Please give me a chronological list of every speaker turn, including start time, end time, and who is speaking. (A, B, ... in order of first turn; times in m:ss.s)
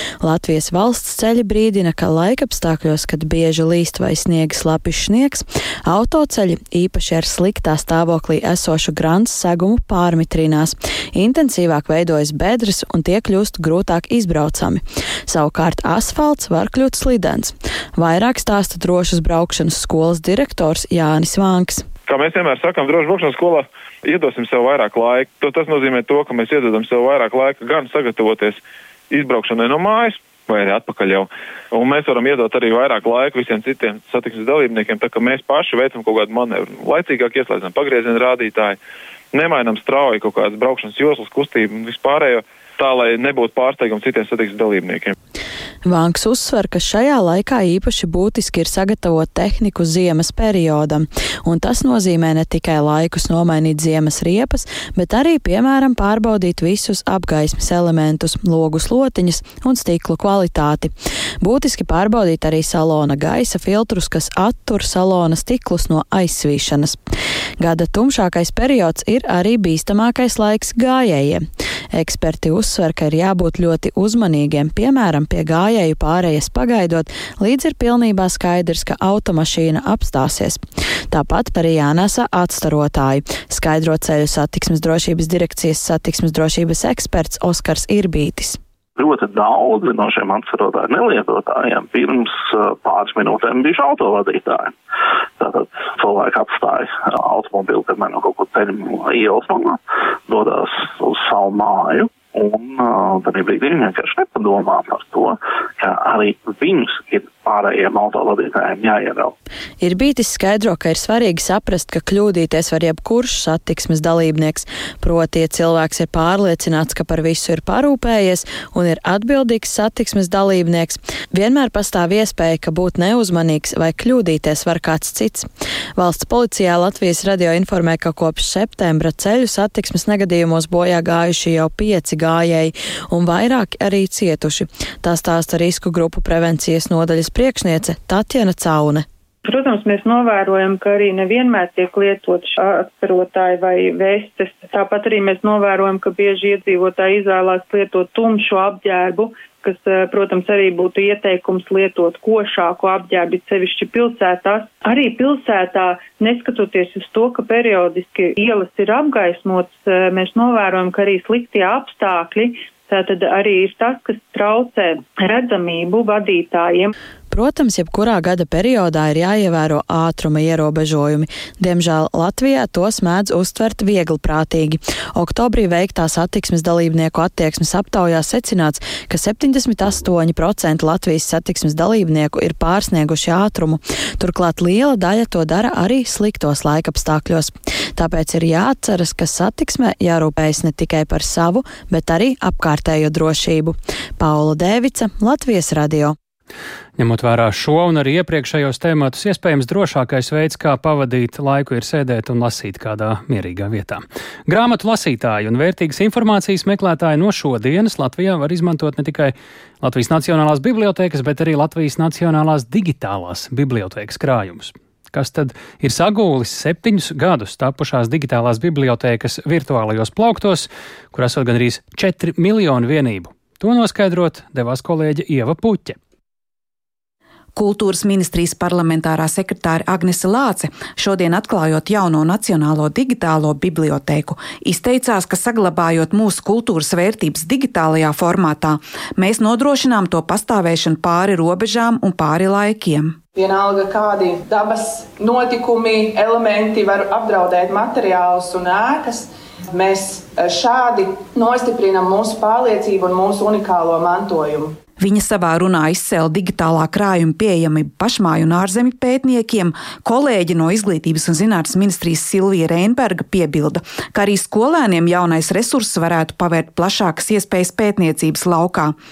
0:00.2-0:21.9 A
0:22.1-0:28.6 B
0:29.1-0:38.8 B
0:39.3-0:45.1 B
0:45.8-1:07.0 A
1:07.6-1:28.6 A
1:29.0-1:34.7 C
1:35.4-1:49.3 C
1:49.8-2:19.0 A
2:19.5-2:46.9 D
2:47.3-3:16.2 A
3:17.0-3:46.0 E
3:47.6-4:03.2 F
4:03.4-4:14.8 G
4:15.0-4:29.0 F